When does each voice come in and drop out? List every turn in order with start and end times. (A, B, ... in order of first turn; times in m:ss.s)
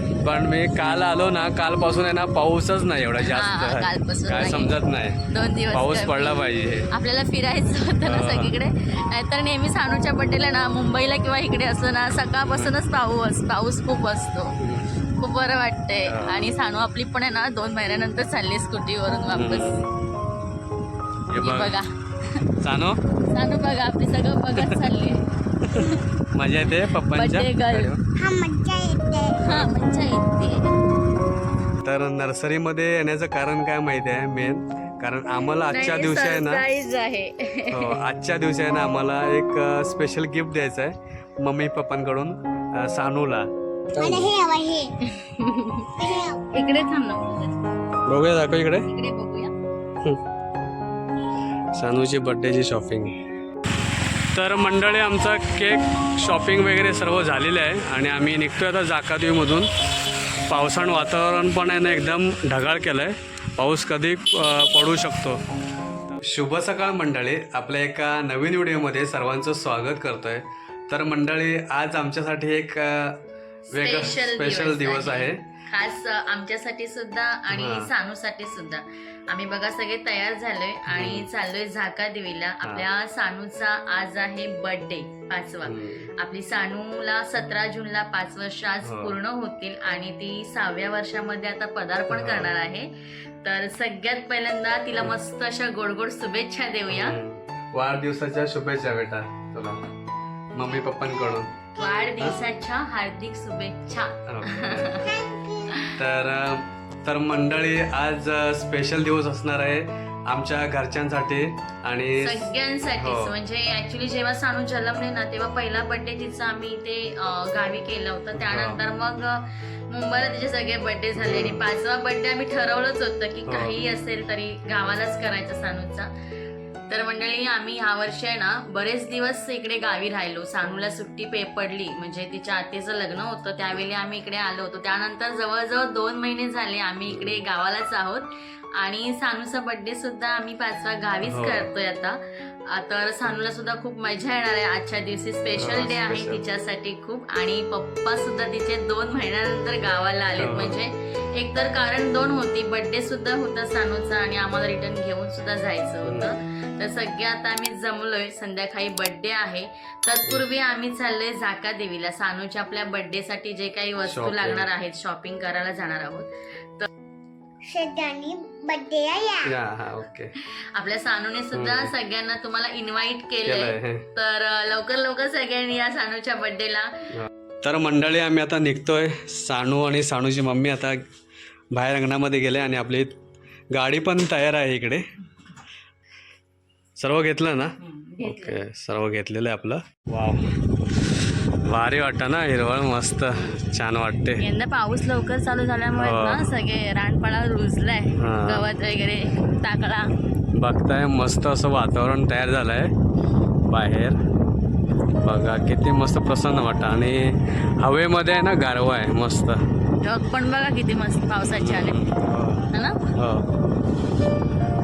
0:00.2-0:05.2 A
0:03.3-0:04.7 B
0:05.3-0:06.4 B
0:05.7-0:06.9 A
0:06.9-0:14.5 B
0:08.0-0:08.6 A
0:12.5-0:12.8 A
0:14.6-0:14.9 A
0:15.2-0:19.7 B
0:16.1-0:16.5 A
0:19.3-0:19.9 A
0:21.3-0:21.8 A
0:21.4-0:22.4 B
0:22.6-0:23.0 A
0:23.2-0:26.0 B
0:24.5-0:24.9 A
0:25.6-0:28.0 A
0:26.7-0:28.0 B
0:28.1-0:29.4 C
0:29.4-0:30.8 B
0:29.5-0:29.8 A
0:31.8-0:36.7 A
0:35.7-0:38.0 B
0:37.7-0:44.3 A
0:44.0-0:44.9 C
0:45.0-0:47.6 B
0:46.0-0:46.4 C
0:48.0-0:48.9 A
0:48.8-0:49.5 B
0:51.7-0:53.2 A
0:54.3-1:05.4 A
1:06.1-1:15.4 A
1:13.7-1:32.9 B
1:17.5-1:17.9 A
1:20.9-1:21.3 A
1:25.6-1:26.1 A
1:28.8-1:29.2 A
1:32.1-1:32.5 A
1:33.4-1:37.2 B
1:36.9-1:39.8 A
1:40.6-1:41.5 A
1:41.8-1:46.0 B
1:44.3-1:45.0 A
1:45.2-1:45.6 C
1:46.0-1:53.3 A
1:52.2-2:06.1 B
1:58.3-1:58.8 A
2:01.2-2:01.7 A
2:03.5-2:03.8 A
2:06.9-2:46.9 B
2:17.1-2:17.4 A
2:21.2-2:21.7 A
2:25.6-2:26.4 A
2:30.4-2:30.8 A
2:36.1-2:36.4 A
2:44.0-2:44.7 A
2:47.6-2:49.5 C
2:49.5-2:50.3 A
2:50.7-2:56.9 B
2:51.5-2:51.9 A
2:53.4-2:54.1 A
2:57.1-3:01.0 A
3:01.7-3:03.1 A
3:03.7-3:05.0 A
3:07.0-3:10.5 A
3:07.8-3:08.6 B
3:11.6-3:14.4 A
3:14.4-3:20.1 B
3:16.0-3:16.5 A
3:18.1-3:18.7 A
3:20.5-3:22.9 A
3:23.7-3:24.2 A
3:25.2-3:29.6 A
3:30.0-3:32.0 B
3:31.5-3:33.5 A
3:32.7-3:33.0 B